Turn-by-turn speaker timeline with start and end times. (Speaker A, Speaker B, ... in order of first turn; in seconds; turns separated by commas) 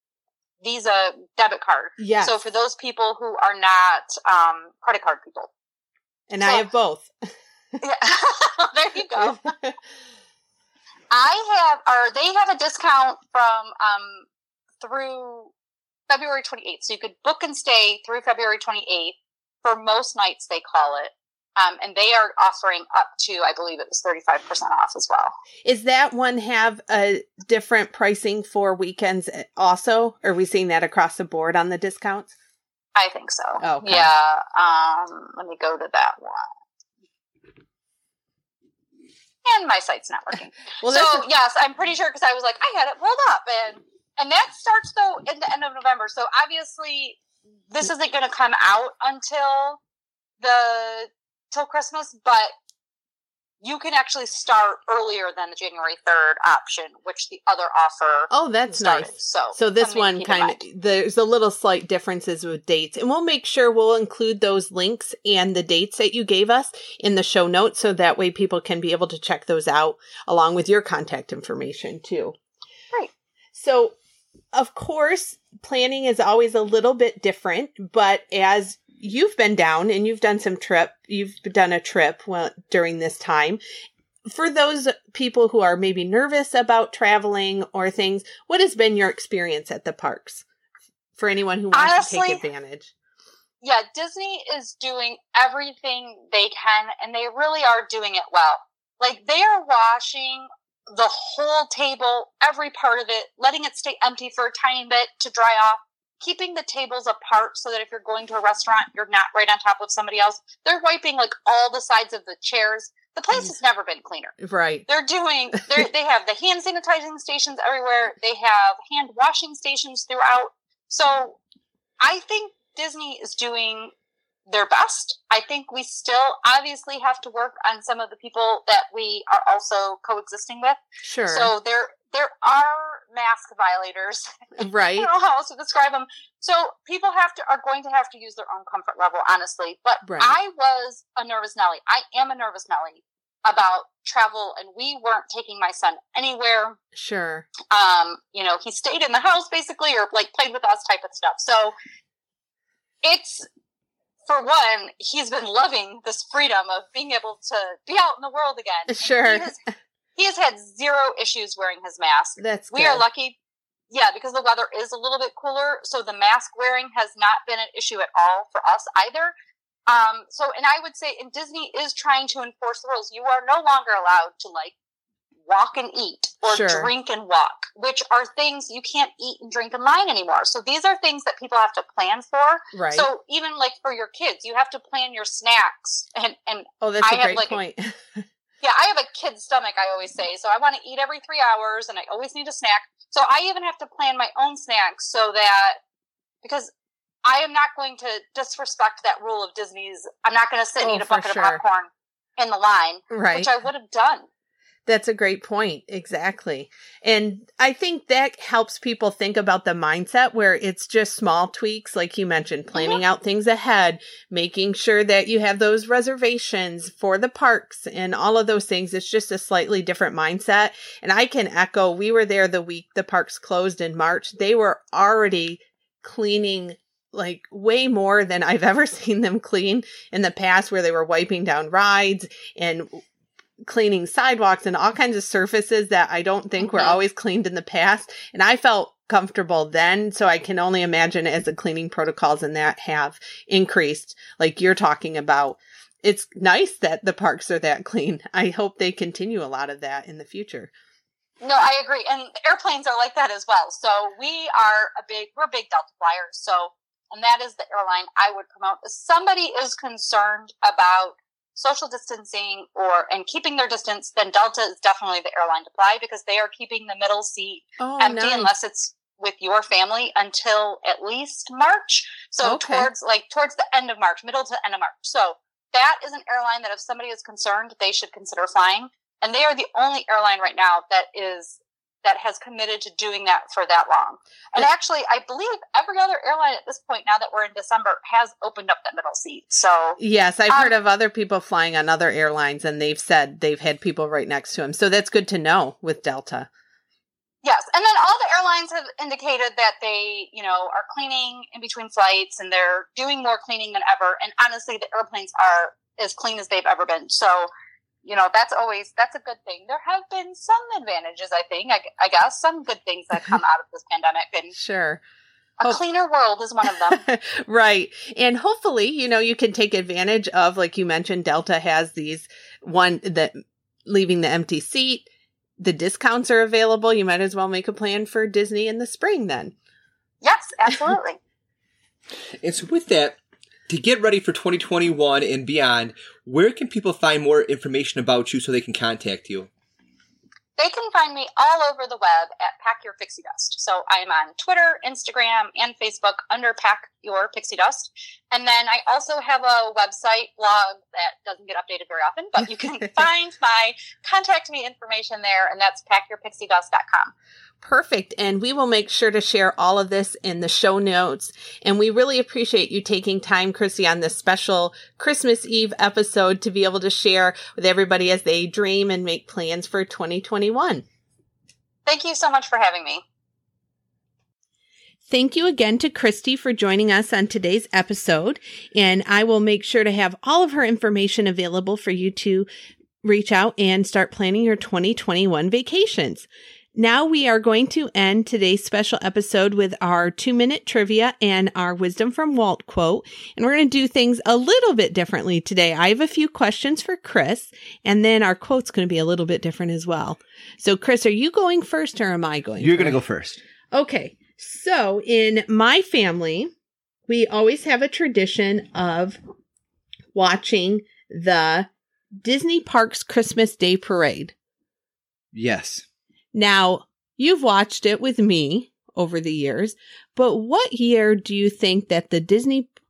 Speaker A: 0.6-5.5, Speaker B: 2.0-2.4, Speaker B: 6.3-7.1, Speaker A: 6.4-6.7, Speaker A: 7.8-9.4, Speaker B: 9.2-9.8, Speaker A: 11.1-14.3, Speaker A: 14.8-15.5, Speaker A: 16.1-25.4, Speaker B: 25.6-32.3, Speaker A: 33.0-36.5, Speaker B: 33.6-34.1, Speaker A: 39.5-47.2, Speaker B: 40.8-41.2, Speaker A: 47.7-49.8, Speaker A: 50.4-52.5, Speaker A: 53.6-60.6, Speaker B: 58.3-72.4, Speaker B: 73.5-74.0, Speaker B: 74.5-83.6, Speaker B: 84.2-90.5, Speaker B: 91.2-92.9, Speaker A: 91.7-92.4, Speaker A: 93.6-114.4, Speaker B: 114.4-114.9, Speaker A: 114.9-121.4, Speaker A: 122.0-123.9, Speaker A: 124.5-146.8, Speaker B: 131.0-131.5, Speaker B: 134.6-135.1, Speaker B: 140.1-140.3, Speaker B: 146.9-147.5, Speaker A: 147.7-151.8, Speaker A: 153.0-153.5, Speaker A: 154.3-159.6, Speaker B: 158.9-159.5, Speaker A: 160.2-163.4, Speaker B: 162.4-163.0, Speaker A: 163.9-169.3, Speaker A: 169.9-174.7, Speaker A: 175.5-187.6, Speaker B: 176.5-176.9, Speaker B: 182.7-183.1, Speaker B: 186.8-188.2, Speaker A: 188.6-195.8, Speaker A: 196.4-196.7, Speaker A: 197.3-204.3, Speaker B: 200.8-201.6, Speaker B: 203.1-203.5, Speaker B: 204.9-233.0, Speaker A: 212.7-213.0, Speaker B: 233.7-250.7, Speaker A: 236.6-237.0, Speaker A: 251.4-290.0, Speaker B: 267.8-268.5, Speaker B: 272.4-272.9, Speaker B: 290.0-296.5, Speaker A: 297.4-307.5, Speaker A: 308.0-314.5, Speaker B: 314.5-315.0, Speaker A: 315.6-317.0, Speaker B: 316.9-325.1, Speaker B: 325.6-329.5, Speaker A: 330.2-331.2, Speaker C: 332.4-339.5, Speaker A: 340.6-357.1, Speaker B: 357.6-370.9, Speaker A: 371.9-373.0, Speaker B: 375.1-382.5, Speaker B: 383.0-403.0, Speaker C: 402.6-403.4, Speaker B: 403.7-406.5, Speaker B: 407.1-409.2, Speaker B: 410.1-411.7, Speaker B: 412.2-414.3, Speaker C: 415.3-415.9, Speaker B: 416.3-422.7